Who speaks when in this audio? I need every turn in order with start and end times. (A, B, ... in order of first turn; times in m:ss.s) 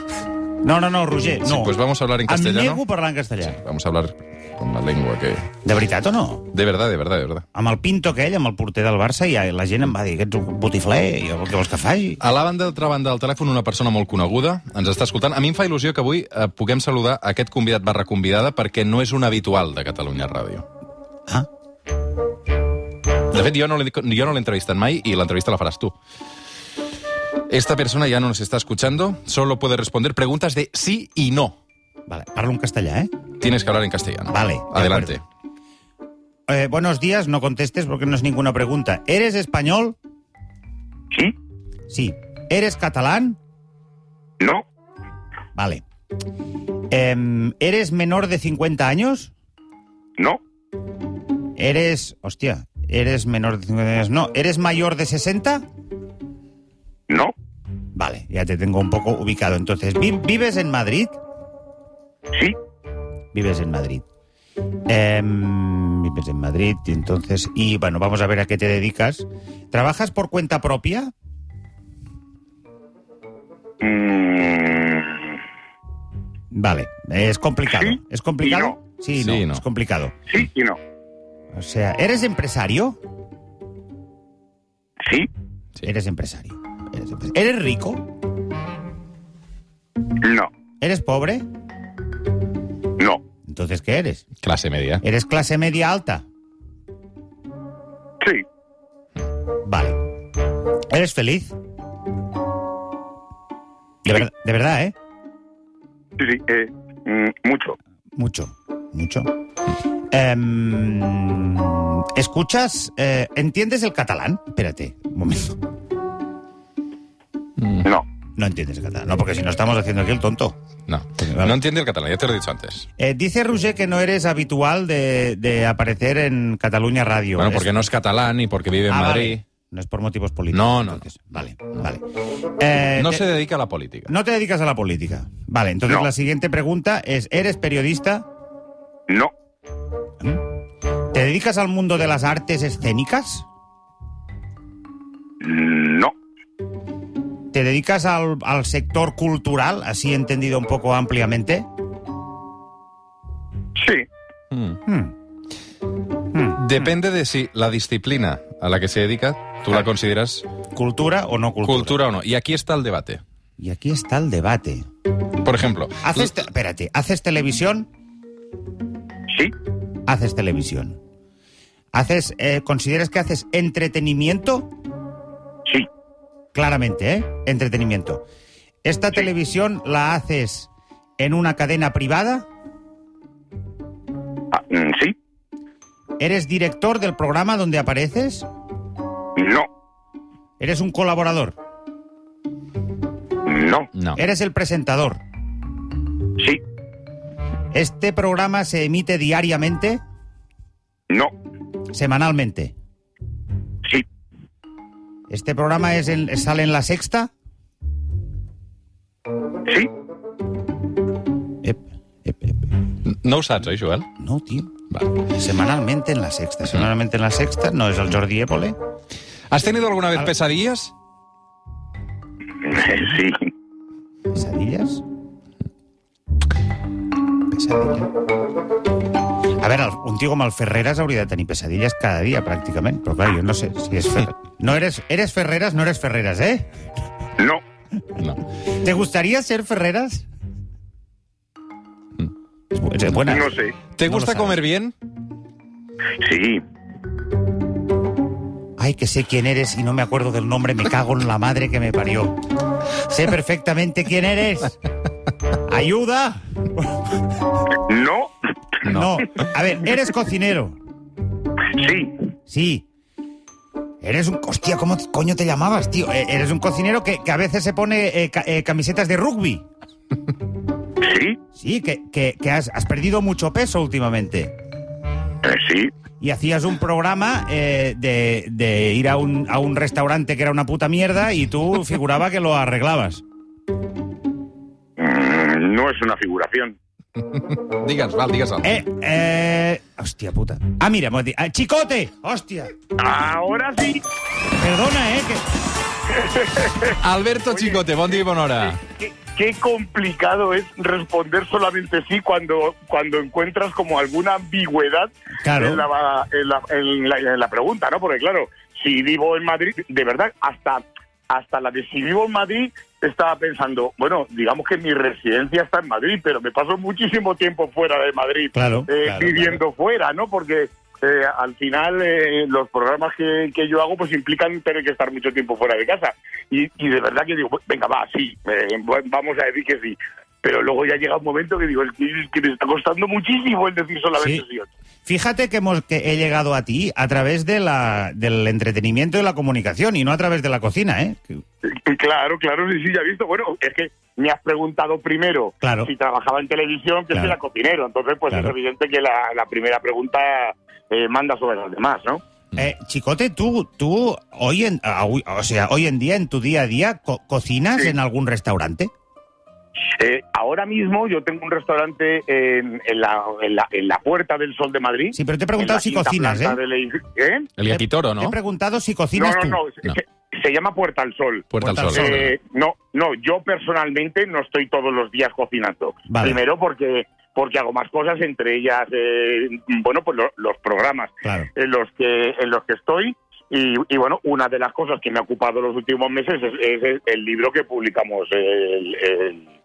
0:00.6-0:01.8 A
0:01.4-0:02.8 B
0:02.3-0:03.6 A
0:03.5-0:05.5 B
0:05.6-0:06.5 A
0:06.5-0:07.4 B
0:07.5-0:12.2 A
0:12.2-0:20.6 B
0:23.3-0:25.9 B
0:27.5-0:31.6 B
0:32.1-0:33.1 A
0:33.4-0:35.2 B
0:34.3-0:35.2 A
0:36.5-0:40.0 A
0:41.9-0:43.4 A
0:44.4-0:44.6 C
0:45.6-0:45.8 A
0:46.9-0:49.3 A
0:51.6-0:55.6 A
0:57.1-0:57.3 C
0:58.0-1:01.2 A
1:03.3-1:04.0 A
1:04.9-1:11.1 A
1:13.8-1:15.4 C
1:16.5-1:20.2 A
1:17.7-1:18.8 C
1:19.2-1:19.6 B
1:20.3-1:20.8 C
1:21.5-1:23.0 A
1:25.0-1:25.3 C
1:25.8-1:28.1 A
1:30.2-1:30.5 C
1:30.8-1:31.4 A
1:33.5-1:34.2 A
1:34.4-1:35.0 B
1:35.0-1:36.2 A
1:39.6-1:40.0 A
1:40.9-1:41.6 A
1:44.0-1:45.0 A
1:46.2-1:47.8 C
1:48.2-1:49.3 A
1:50.1-1:55.6 A
1:57.6-1:57.9 B
1:58.4-2:00.6 A
2:00.9-2:02.9 B
2:01.2-2:01.6 A
2:03.0-2:07.7 A
2:07.4-2:09.4 B
2:08.9-2:12.0 A
2:10.5-2:11.0 B
2:12.6-2:13.3 A
2:13.0-2:14.1 B
2:14.1-2:18.3 A
2:21.1-2:23.5 A
2:25.4-2:26.1 C
2:27.5-2:31.7 A
2:33.8-2:34.1 C
2:34.5-2:34.8 B
2:34.8-2:35.1 A
2:36.3-2:36.9 A
2:36.6-2:40.5 B
2:40.7-2:42.0 A
2:41.6-2:43.2 B
2:43.6-2:44.9 A
2:45.4-2:46.3 B
2:46.0-2:47.9 A
2:49.3-2:49.5 C
2:50.1-2:51.0 A
2:51.9-2:54.7 A
2:56.5-2:58.2 A
2:58.8-3:02.5 A
3:04.5-3:05.2 C
3:06.2-3:08.5 A
3:09.4-3:09.7 C
3:10.6-3:11.6 A
3:13.5-3:13.9 C
3:14.0-3:14.2 B
3:14.2-3:15.2 A
3:17.7-3:20.0 A
3:21.9-3:22.7 A
3:25.3-3:27.3 A
3:31.6-3:32.7 A
3:33.1-3:34.1 B
3:34.2-3:34.7 A
3:35.3-3:38.8 A
3:39.5-3:40.9 B
3:42.6-3:43.5 C
3:44.3-3:45.0 A
3:47.5-3:48.1 A
3:49.6-3:56.7 A
3:58.7-4:00.3 A
4:02.7-4:04.6 A
4:03.3-4:03.8 C
4:04.0-4:04.9 B
4:06.2-4:06.6 C
4:08.8-4:12.4 A
4:13.0-4:14.8 A
4:15.6-4:17.3 A
4:17.9-4:18.3 C
4:18.8-4:20.8 A
4:21.7-4:22.1 C
4:22.5-4:22.9 A
4:24.0-4:29.6 A
4:31.0-4:31.4 C
4:31.5-4:34.6 A
4:35.4-4:35.9 C
4:36.2-4:43.2 A
4:45.0-4:46.8 C
4:47.2-4:48.7 B
4:48.6-4:52.7 A
4:53.0-4:54.0 C
4:54.6-4:55.5 A
4:56.1-4:57.0 C
4:57.0-4:58.8 B
4:57.5-4:57.8 C
4:58.8-5:34.7 C
5:05.4-5:05.9 A
5:18.6-5:19.6 A
5:34.2-5:34.4 A
5:35.1-5:41.4 A
5:41.6-5:52.2 C
5:45.6-5:45.9 A
5:52.6-5:58.9 A
5:59.8-6:07.5 C
6:05.1-6:06.6 A
6:07.6-6:08.4 B
6:07.7-6:09.6 A
6:09.2-6:29.5 C
6:11.5-6:12.3 B
6:11.6-6:12.3 A
6:16.1-6:16.4 A
6:21.2-6:21.5 A